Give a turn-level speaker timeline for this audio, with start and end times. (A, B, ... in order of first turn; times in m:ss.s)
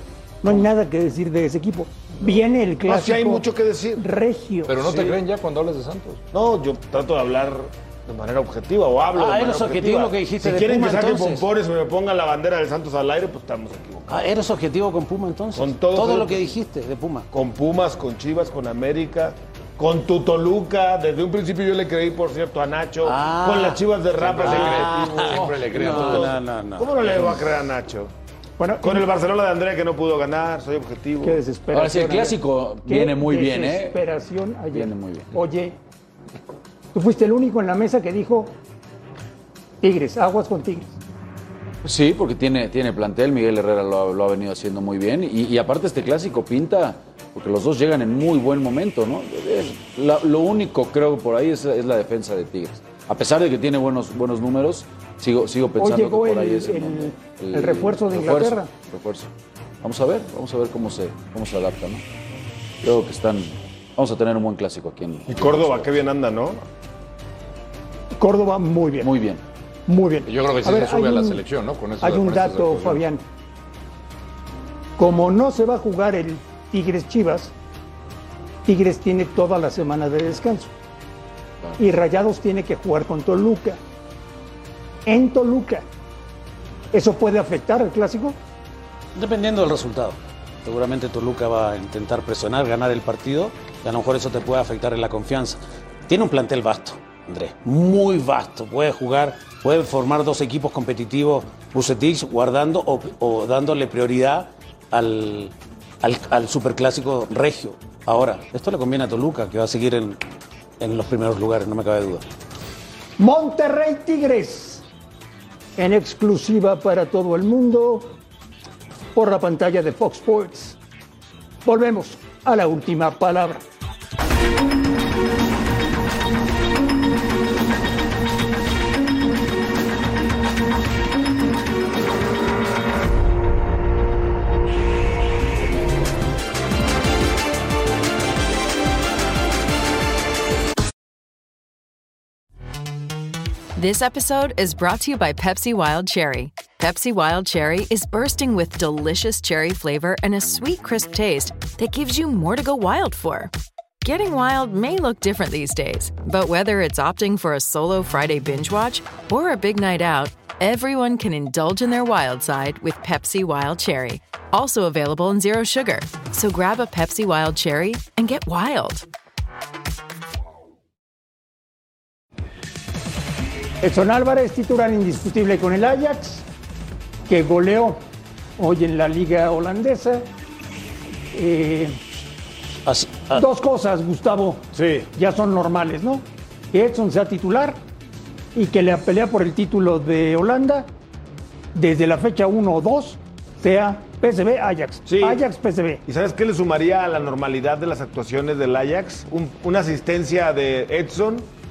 0:00.4-0:03.4 A
0:02.9-0:04.0 B
0:04.0-0:04.7 A
0:04.7-0:06.2 C
0:04.8-0:05.2 B
0:06.3-0:14.3 B
0:09.2-0:11.5 D
0:14.1-0:17.3 D
0:15.5-0:16.5 B
0:17.3-0:28.1 B
0:23.0-0:27.5 D
0:24.3-0:26.4 C
0:28.6-0:29.1 A
0:28.8-0:31.4 B
0:31.2-0:35.8 A
0:31.7-0:34.0 E
0:34.7-0:35.3 E
0:36.9-0:38.6 A
0:39.8-0:41.0 A
0:41.8-0:59.3 E
0:55.8-0:58.7 A
0:59.8-1:02.0 E
1:02.8-1:05.9 E
1:05.3-1:06.6 B
1:08.2-1:09.1 A
1:09.0-1:09.4 E
1:09.9-1:11.4 A
1:10.3-1:13.0 C
1:12.0-1:13.2 A
1:15.0-1:17.5 A
1:18.7-1:20.7 A
1:21.8-1:23.8 A
1:25.1-1:25.9 A
1:26.9-1:28.4 A
1:29.2-1:50.2 D
1:50.8-1:52.2 D
1:53.2-1:54.9 A
1:55.8-1:58.1 A
1:59.2-2:00.8 A
2:01.6-2:03.6 A
2:23.8-2:33.5 F
2:34.0-2:49.0 F
2:53.8-2:56.5 A
2:57.3-2:58.0 A
2:58.6-3:00.3 A
3:01.3-3:02.0 A
3:02.9-3:03.4 D
3:03.3-3:07.8 A
3:04.7-3:05.1 B
3:08.6-3:10.9 A
3:11.8-3:16.0 A
3:15.1-3:15.4 B
3:16.0-3:21.5 B